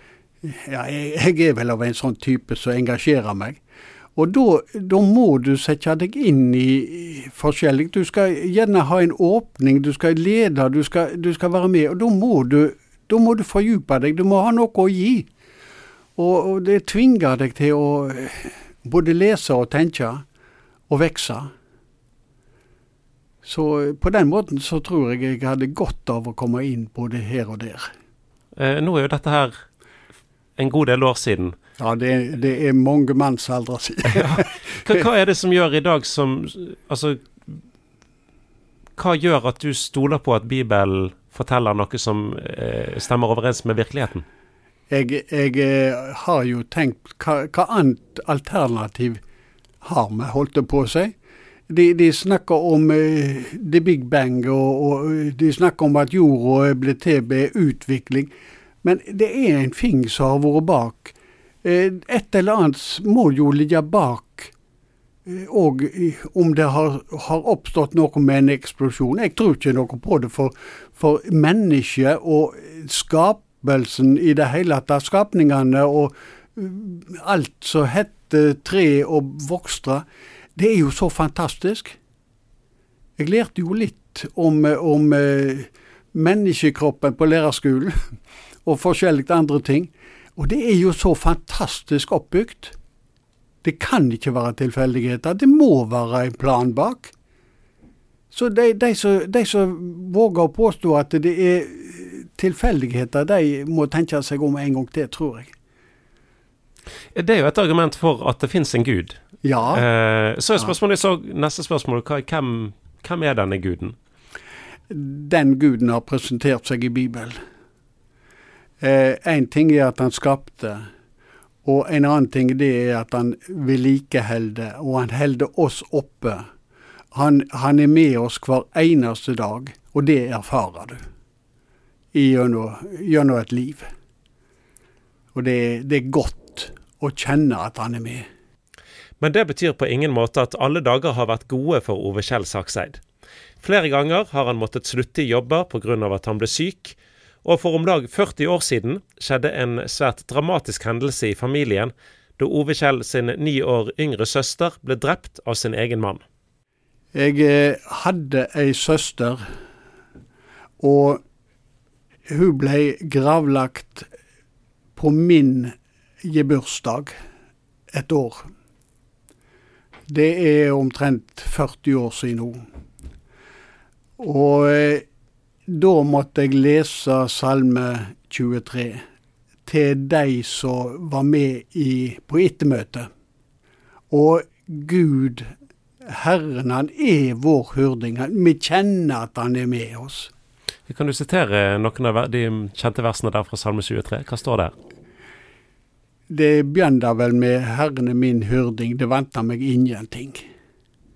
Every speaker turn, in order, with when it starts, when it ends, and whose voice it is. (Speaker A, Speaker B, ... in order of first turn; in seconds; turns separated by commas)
Speaker A: 0.4-3.6, Speaker A: 4.2-15.3, Speaker A: 16.2-20.2, Speaker A: 20.9-21.5, Speaker A: 23.4-27.9, Speaker B: 28.6-29.5, Speaker B: 30.6-31.6, Speaker A: 31.8-34.6, Speaker B: 34.1-37.5, Speaker B: 39.0-44.2, Speaker A: 44.9-49.2, Speaker A: 49.8-51.1, Speaker A: 51.7-58.3, Speaker A: 58.8-64.5, Speaker A: 65.3-80.0, Speaker A: 80.6-82.0, Speaker A: 83.2-88.0, Speaker A: 88.7-92.8, Speaker A: 93.6-97.1, Speaker A: 98.3-105.5, Speaker B: 107.1-109.2, Speaker A: 109.4-109.8, Speaker B: 109.7-114.0, Speaker A: 114.9-117.4, Speaker A: 118.8-120.9, Speaker A: 121.6-126.4, Speaker A: 127.1-131.0, Speaker A: 132.1-133.9, Speaker A: 135.3-138.2, Speaker B: 139.2-143.0, Speaker B: 143.6-156.2, Speaker A: 157.1-159.4, Speaker A: 160.8-161.2, Speaker A: 162.3-164.1, Speaker A: 165.0-167.2, Speaker A: 167.9-168.5, Speaker A: 170.1-172.6, Speaker A: 174.2-175.0, Speaker A: 175.7-179.0, Speaker A: 179.7-183.1, Speaker A: 184.1-185.5, Speaker A: 186.1-190.3, Speaker B: 190.9-194.7, Speaker A: 196.3-200.4